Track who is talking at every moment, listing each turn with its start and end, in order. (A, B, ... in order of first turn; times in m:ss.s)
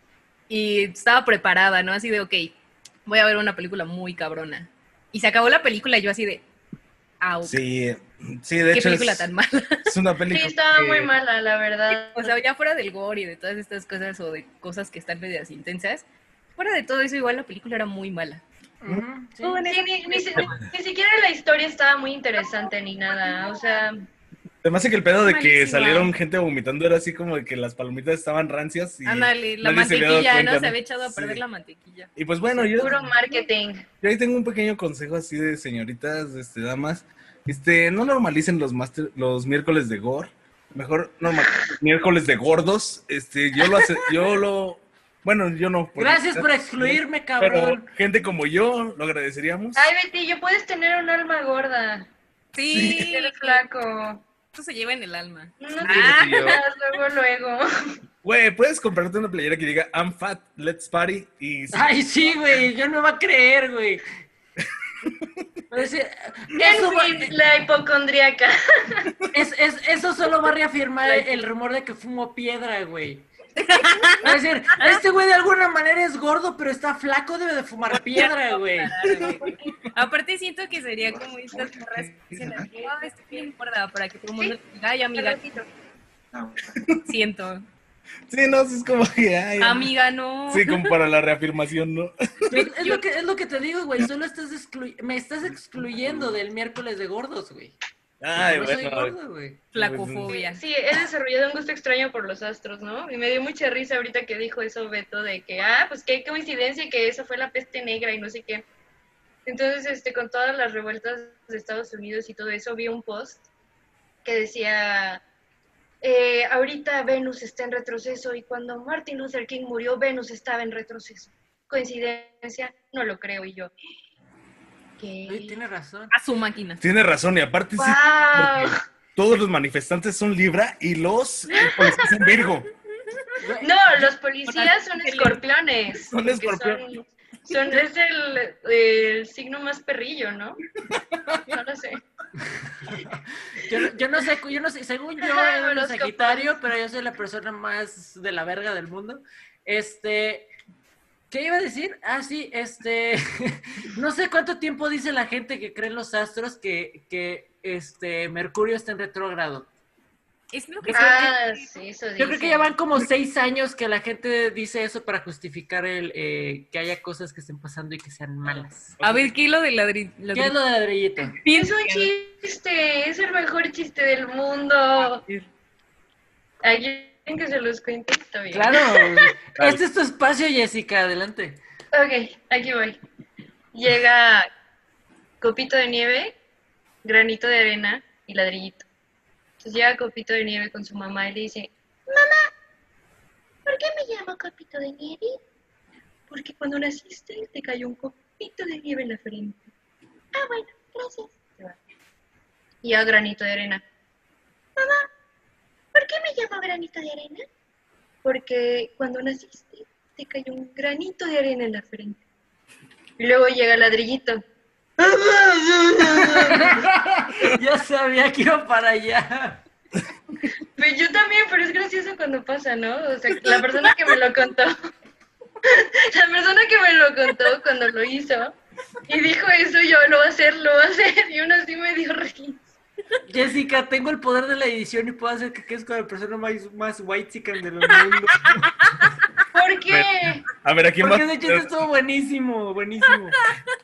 0:00.5-0:02.5 A
0:03.0-0:06.4 A
0:07.2-0:07.6 A
0:07.4-0:09.3 B
0:08.7-0:09.9 A
0:09.8-0:11.1 B
0:10.3-0:12.3 C
0:11.9-0:16.0 A
0:16.6-0:18.4 A
0:18.8-0:19.6 D
0:19.4-0:20.5 A
0:19.6-0:24.0 C
0:24.6-0:31.4 B
0:25.2-0:26.1 A
0:29.0-0:33.5 A
0:32.2-0:33.0 B
0:32.8-0:33.8 C
0:34.0-0:49.9 B
0:46.0-0:47.9 D
0:49.8-0:52.1 C
0:52.5-0:53.6 A
0:52.7-0:53.0 B
0:52.7-0:54.2 C
0:54.5-0:56.6 A
0:55.6-0:57.7 C
0:55.8-0:56.6 B
0:58.2-1:02.0 B
1:01.7-1:04.0 D
1:05.7-1:07.4 D
1:06.5-1:09.1 C
1:09.3-1:13.3 D
1:13.6-1:15.0 A
1:14.2-1:18.9 D
1:17.9-1:25.5 A
1:19.0-1:19.5 B
1:22.0-1:22.7 B
1:22.6-1:23.5 C
1:25.2-1:25.7 C
1:26.7-1:27.0 B
1:27.0-1:27.6 A
1:28.3-1:29.9 B
1:29.6-1:30.9 A
1:30.5-1:32.5 B
1:32.5-1:33.0 A
1:32.5-1:37.8 D
1:36.0-1:36.3 B
1:38.2-1:39.1 B
1:38.3-1:39.6 D
1:39.7-1:40.6 A
1:39.7-1:40.3 B
1:40.3-1:48.6 C
1:49.4-1:53.4 C
1:54.2-1:55.2 C
1:56.0-2:03.7 C
2:05.0-2:05.6 C
2:05.3-2:06.1 D
2:06.1-2:06.8 A
2:06.8-2:12.7 B
2:07.8-2:08.8 C
2:11.5-2:12.4 C
2:13.4-2:14.0 D
2:13.6-2:20.6 C
2:14.4-2:15.4 A
2:16.1-2:17.0 B
2:20.9-2:21.4 B
2:21.5-2:22.0 C
2:22.4-2:30.5 D
2:25.2-2:26.5 C
2:31.3-2:39.7 D
2:40.5-2:41.7 A
2:40.9-2:42.7 C
2:42.2-2:48.9 D
2:49.0-2:49.3 B
2:49.0-2:50.5 A
2:50.3-2:51.4 D
2:51.4-2:52.1 A
2:51.5-2:55.2 C
2:56.6-2:59.3 C
2:58.5-3:01.6 D
2:59.6-2:59.8 B
3:01.9-3:03.0 C
3:03.7-3:04.5 C
3:05.4-3:06.4 C
3:07.0-3:08.8 C
3:09.6-3:12.5 C
3:13.6-3:15.4 C
3:16.3-3:19.7 C
3:20.3-3:21.8 C
3:22.8-3:23.8 C
3:24.8-3:25.1 C
3:25.9-3:27.4 C
3:28.2-3:32.2 C
3:33.2-3:34.4 C
3:35.0-3:39.6 D
3:36.2-3:36.8 C
3:40.8-3:44.8 C
3:45.6-3:48.6 C
3:49.1-3:52.6 C
3:53.3-3:58.7 D
3:59.5-4:00.4 C
3:59.9-4:01.7 B
4:01.0-4:03.4 D